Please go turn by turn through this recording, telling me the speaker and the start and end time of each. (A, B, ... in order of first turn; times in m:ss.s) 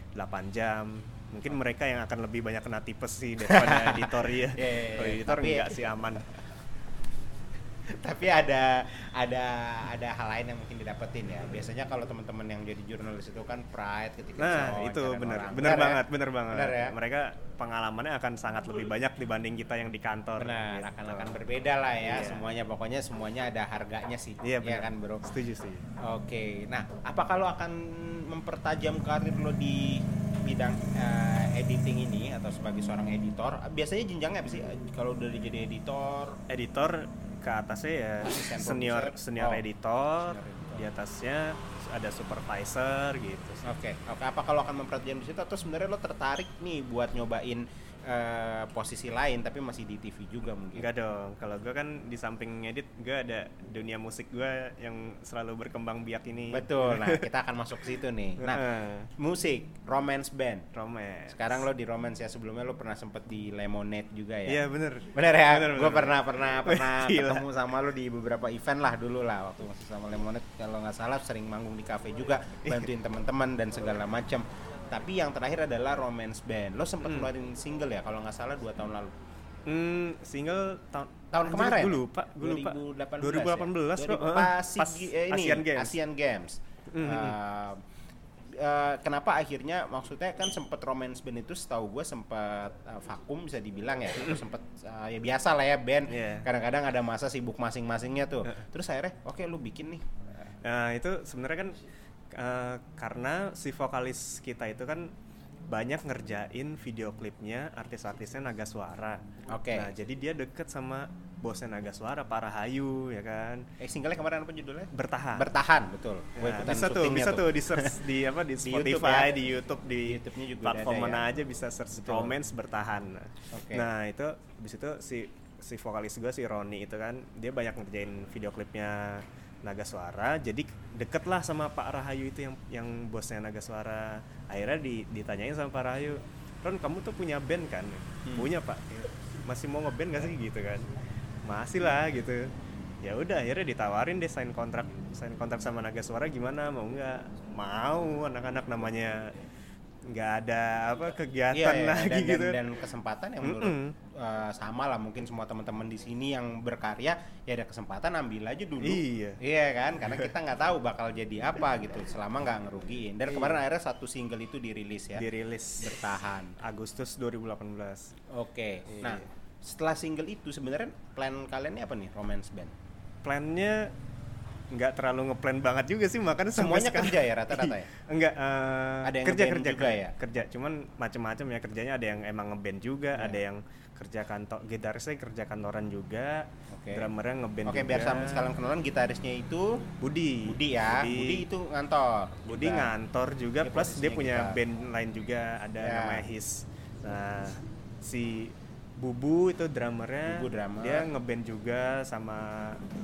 0:00.2-0:06.2 A
0:03.4-0:05.8 B
0:08.0-0:17.0 B
0:14.4-0:21.4 A
0:20.4-0:25.3 B
0:22.0-0:22.4 A
0:24.4-0:25.8 A
0:26.0-0:36.4 B
0:36.5-0:43.6 A
0:38.2-0:39.6 B
0:40.2-0:40.8 B
0:43.6-0:50.9 B
0:50.7-0:57.3 A
0:56.5-0:58.6 B
0:58.4-0:59.1 A
0:59.2-1:00.7 B
1:00.7-1:01.6 A
1:01.3-1:19.1 B
1:04.5-1:07.4 A
1:19.6-1:26.0 A
1:21.3-1:27.8 B
1:26.9-1:27.4 A
1:28.6-1:40.0 B
1:36.1-1:36.4 A
1:40.6-1:41.7 A
1:42.3-1:45.1 A
1:45.7-1:49.2 A
1:49.5-1:49.9 B
1:49.7-1:53.6 A
1:53.8-1:58.0 B
1:54.9-1:55.4 A
1:56.4-2:20.9 A
1:58.6-1:59.3 B
2:00.0-2:01.2 B
2:02.0-2:02.3 B
2:03.5-2:03.9 B
2:18.2-2:18.5 B
2:21.4-2:22.5 A
2:23.0-2:29.3 A
2:30.1-2:32.6 A
2:31.5-2:45.3 B
2:33.4-2:33.9 A
2:38.8-2:39.4 A
2:40.0-2:40.3 A
2:43.3-2:43.6 A
2:45.1-2:45.9 A
2:45.8-2:46.6 B
2:46.6-2:48.1 A
2:48.3-2:52.7 B
2:48.9-2:49.3 A
2:53.2-2:53.9 A
2:54.7-3:08.4 A
2:56.5-2:57.9 B
2:59.0-3:00.1 B
3:03.1-3:03.4 B
3:06.7-3:07.1 B
3:07.6-3:09.8 B
3:10.0-3:11.4 A
3:10.4-3:12.9 B
3:12.5-3:22.8 A
3:13.6-3:14.6 B
3:15.8-3:16.3 B
3:20.2-3:21.1 B